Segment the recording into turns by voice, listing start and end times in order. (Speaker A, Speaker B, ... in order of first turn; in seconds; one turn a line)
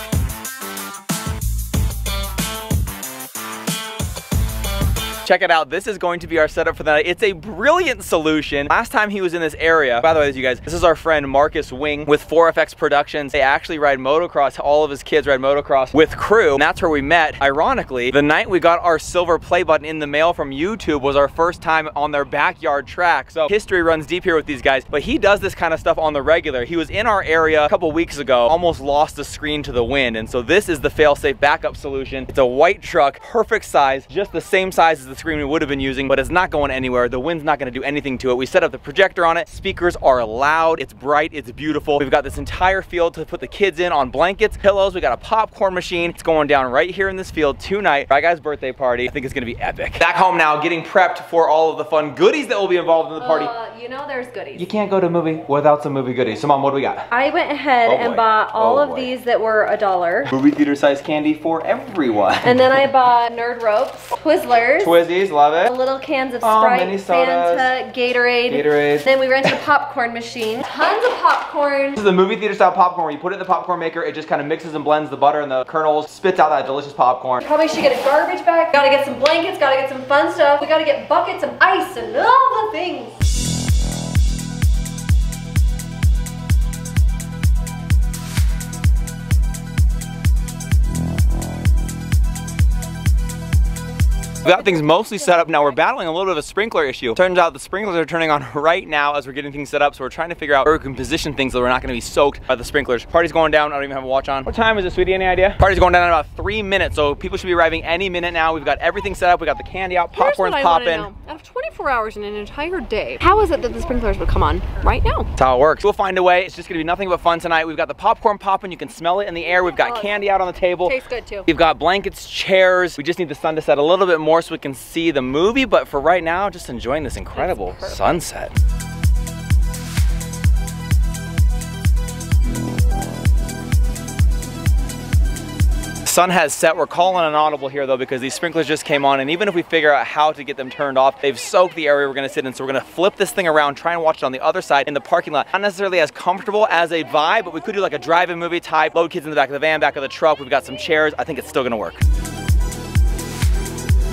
Speaker A: 5.2-53.5
Speaker B: 53.2-54.7
Speaker A: 54.5-57.0
Speaker B: 57.1-60.3
Speaker A: 57.9-59.1
Speaker A: 60.3-62.7
Speaker B: 62.4-65.0
Speaker A: 64.8-65.7
Speaker B: 65.7-72.0
Speaker A: 66.4-67.7
Speaker A: 68.5-69.6
Speaker A: 72.0-77.4
Speaker B: 77.4-83.2
Speaker A: 94.4-111.1
Speaker B: 110.1-115.3
Speaker A: 115.4-121.0
Speaker B: 119.7-120.2
Speaker B: 120.8-121.5
Speaker A: 121.5-128.5
Speaker B: 127.3-128.2
Speaker A: 136.1-152.0